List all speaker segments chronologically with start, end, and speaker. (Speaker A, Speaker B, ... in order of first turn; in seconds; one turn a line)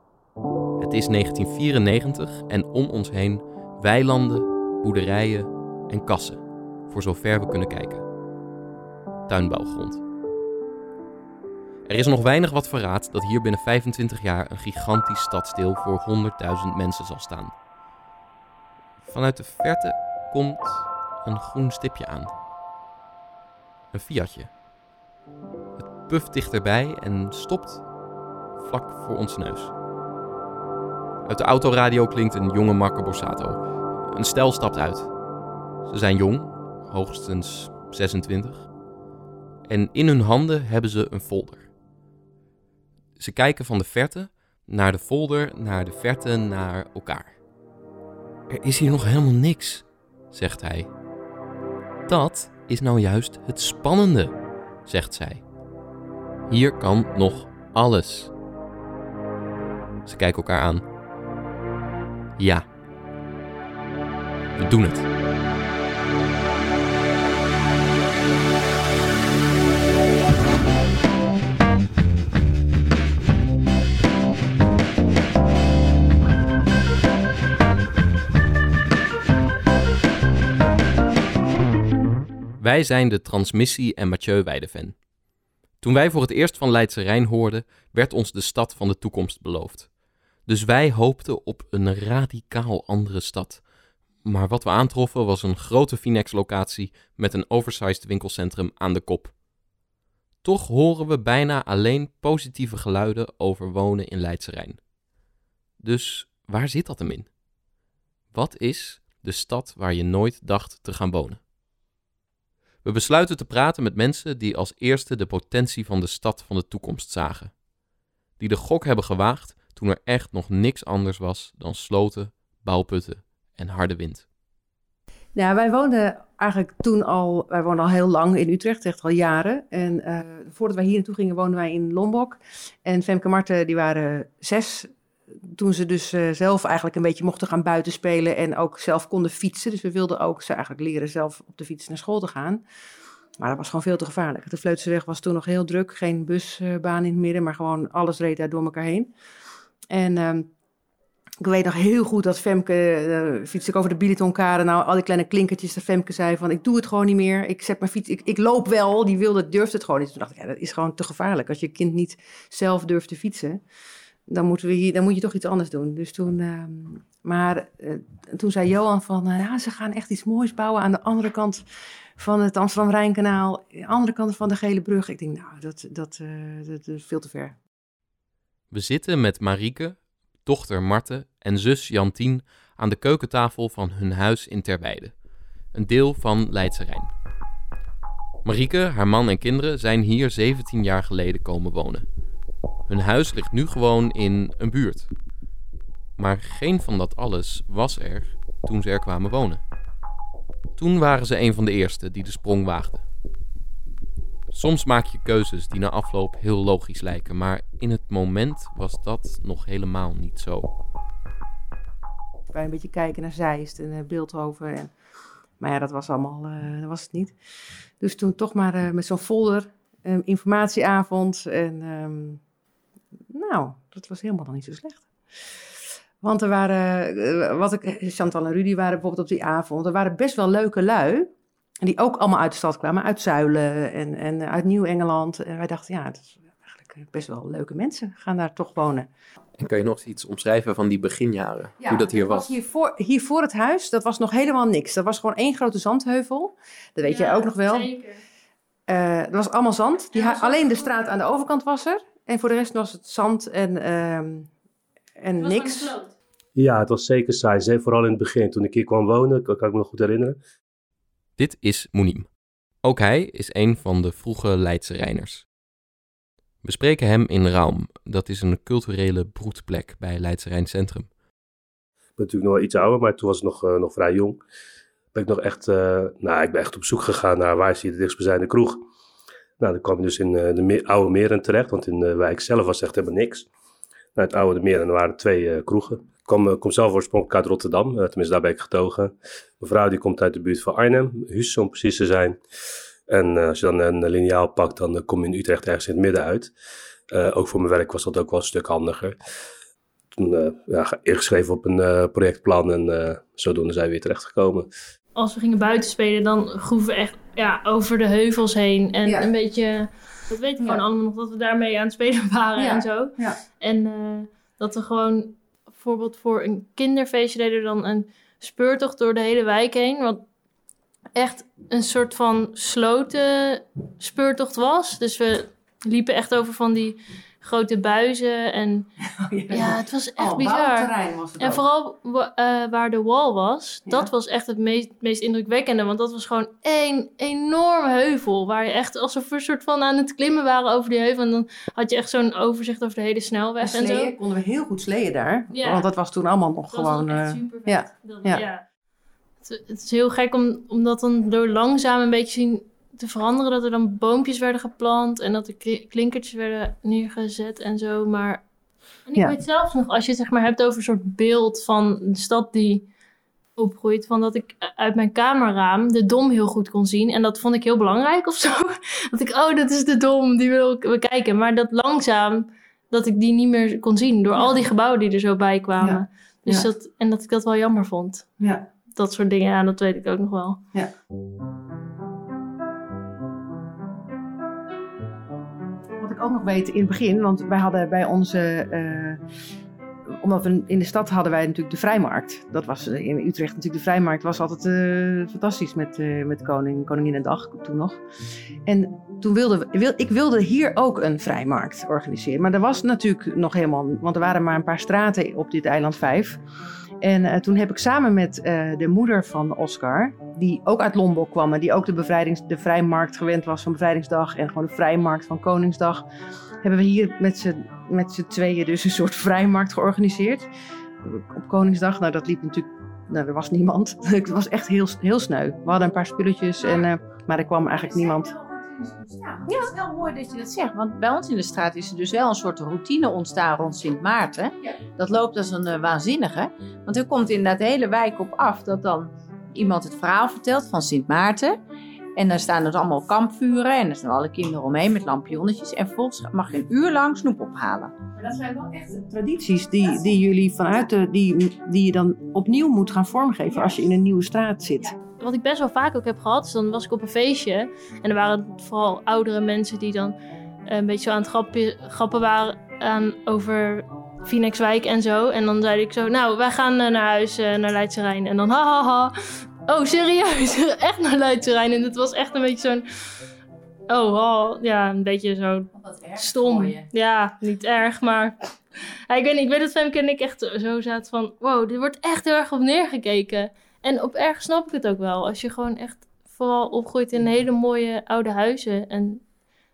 Speaker A: 0.8-8.1
Speaker A: 9.3-10.0
Speaker A: 11.8-17.5
Speaker A: 19.0-22.3
Speaker A: 23.9-24.5
Speaker A: 25.8-27.8
Speaker A: 28.6-29.7
Speaker A: 31.2-35.1
Speaker A: 35.8-38.7
Speaker A: 39.7-41.7
Speaker A: 43.2-47.4
Speaker A: 48.5-50.9
Speaker A: 52.1-55.4
Speaker A: 56.5-58.3
Speaker A: 60.0-60.9
Speaker A: 62.4-62.6
Speaker A: 64.6-65.1
Speaker A: 82.6-85.0
Speaker A: 85.8-89.9
Speaker A: 90.5-93.6
Speaker A: 94.2-99.3
Speaker A: 100.4-104.8
Speaker A: 105.8-107.3
Speaker A: 108.3-111.4
Speaker A: 112.8-117.5
Speaker A: 118.4-124.3
Speaker B: 125.3-134.9
Speaker B: 135.5-142.6
Speaker B: 143.4-149.1
Speaker B: 149.9-150.5
Speaker B: 151.4-163.6
Speaker B: 164.3-171.6
Speaker B: 172.2-177.5
Speaker A: 178.7-185.1
Speaker A: 185.7-187.1
Speaker A: 188.4-192.1
Speaker A: 192.9-195.1
Speaker A: 196.2-199.6
Speaker A: 200.8-203.0
Speaker A: 204.5-210.7
Speaker B: 212.5-214.9
Speaker B: 215.6-217.3
Speaker B: 218.0-222.4
Speaker B: 223.3-225.1
Speaker B: 226.2-231.3
Speaker B: 231.8-239.1
Speaker A: 239.6-242.5
Speaker B: 241.8-247.9
Speaker C: 247.0-248.2
Speaker B: 248.9-254.5
Speaker C: 250.1-250.9
Speaker B: 255.2-255.9
Speaker C: 255.4-256.1
Speaker D: 256.5-260.4
Speaker A: 261.4-262.3
Speaker A: 262.8-265.4
Speaker A: 266.6-271.1
Speaker D: 272.2-274.4
Speaker D: 275.1-278.8
Speaker D: 279.6-283.5
Speaker D: 284.1-292.4
Speaker D: 293.1-296.5
Speaker D: 297.1-299.1
Speaker D: 300.1-304.7
Speaker C: 305.1-320.2
Speaker B: 309.0-309.3
Speaker B: 312.6-313.4
Speaker C: 321.1-328.9
Speaker B: 329.2-331.6
Speaker C: 329.5-344.1
Speaker B: 343.6-348.4
Speaker C: 345.5-345.9
Speaker C: 346.7-348.6
Speaker C: 349.4-358.4
Speaker C: 359.1-362.9
Speaker C: 363.6-378.2
Speaker B: 375.8-376.7
Speaker B: 378.4-378.6
Speaker C: 378.9-380.6
Speaker B: 386.0-389.2
Speaker B: 390.2-398.0
Speaker B: 398.6-406.4
Speaker B: 407.0-416.0
Speaker B: 416.6-420.5
Speaker B: 421.0-428.3
Speaker E: 427.7-441.6
Speaker E: 442.1-447.9
Speaker B: 448.2-454.9
Speaker C: 455.2-460.1
Speaker C: 460.7-469.1
Speaker C: 469.6-472.9
Speaker C: 473.9-489.2
Speaker E: 475.8-476.8